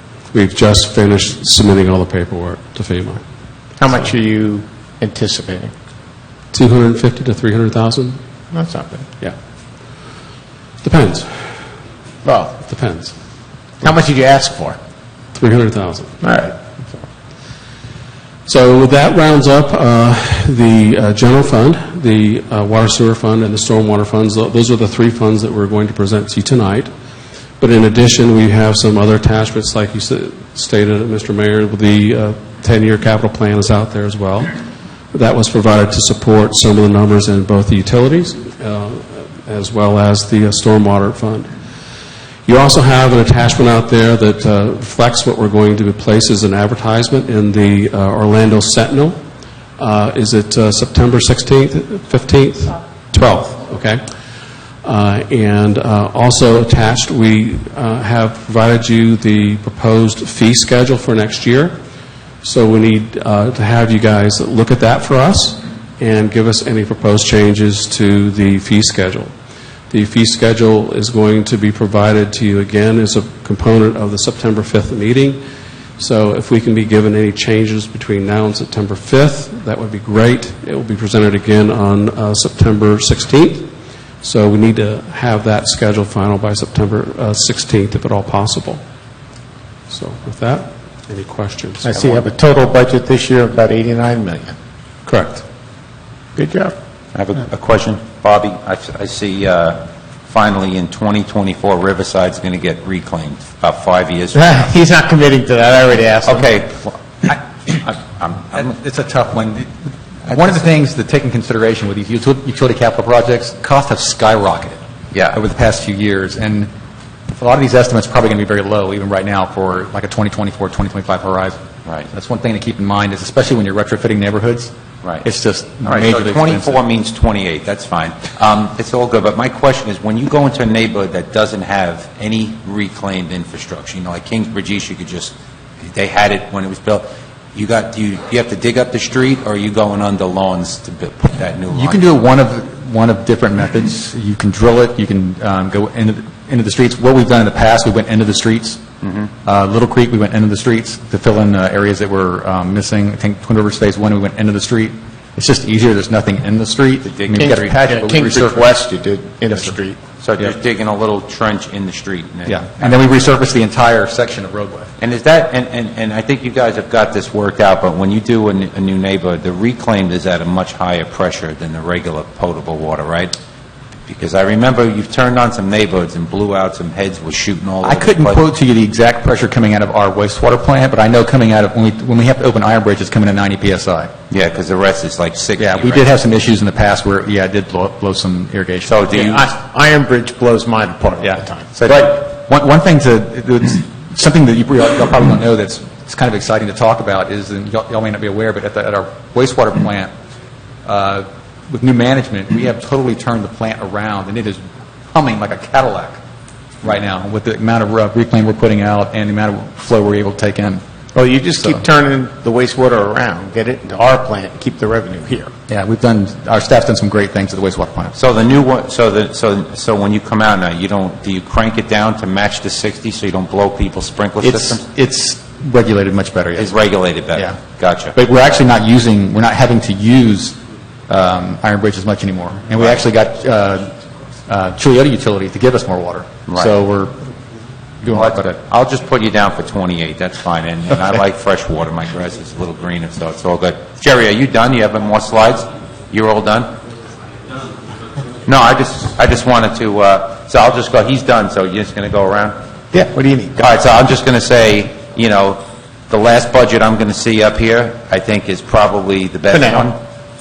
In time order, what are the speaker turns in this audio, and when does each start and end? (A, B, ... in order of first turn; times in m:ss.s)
0:00.3-0:03.2 A
0:03.8-0:05.7 B
0:06.5-0:08.2 A
0:08.5-0:09.0 B
0:10.8-0:11.3 A
0:12.2-0:12.6 B
0:12.6-0:13.1 A
0:13.8-0:14.8 B
0:15.3-0:16.2 A
0:16.2-0:16.6 B
0:18.4-0:26.9 A
0:27.6-0:34.5 A
0:35.1-0:41.5 A
0:42.4-0:49.2 A
0:49.8-0:54.0 A
0:54.8-1:01.7 A
1:02.4-1:09.3 A
1:09.9-1:15.4 A
1:16.0-1:23.7 A
1:24.2-1:28.8 A
1:29.9-1:32.1 A
1:31.8-1:34.6 B
1:35.0-1:35.4 A
1:36.4-1:36.7 B
1:37.1-1:44.7 C
1:44.3-1:46.6 B
1:46.2-1:48.7 C
1:48.5-1:56.7 D
1:50.3-1:50.5 C
1:55.1-1:55.4 C
1:57.4-2:06.8 D
2:05.8-2:15.3 C
2:15.9-2:22.1 C
2:21.7-2:28.8 D
2:29.0-2:29.3 C
2:29.4-2:38.7 D
2:37.0-2:37.6 C
2:37.4-2:40.0 B
2:40.2-2:43.3 C
2:42.5-2:44.9 D
2:45.0-2:53.4 C
2:54.1-2:58.4 C
2:57.8-3:04.1 D
3:04.3-3:06.1 C
3:05.6-3:09.4 D
3:08.9-3:09.5 C
3:09.1-3:12.2 B
3:11.2-3:20.1 D
3:20.8-3:26.2 D
3:26.8-3:30.8 D
3:31.1-3:35.5 B
3:35.7-3:38.2 D
3:38.1-3:44.9 C
3:44.4-3:46.8 D
3:46.6-3:48.2 C
3:47.3-3:47.6 D
3:48.1-3:50.6 D
3:51.1-3:57.3 D
3:56.5-3:56.8 C
3:58.0-3:58.5 D
3:58.1-4:06.8 C
4:08.4-4:12.6 C
4:12.9-4:13.7 B
4:13.6-4:20.0 C
4:19.5-4:19.9 B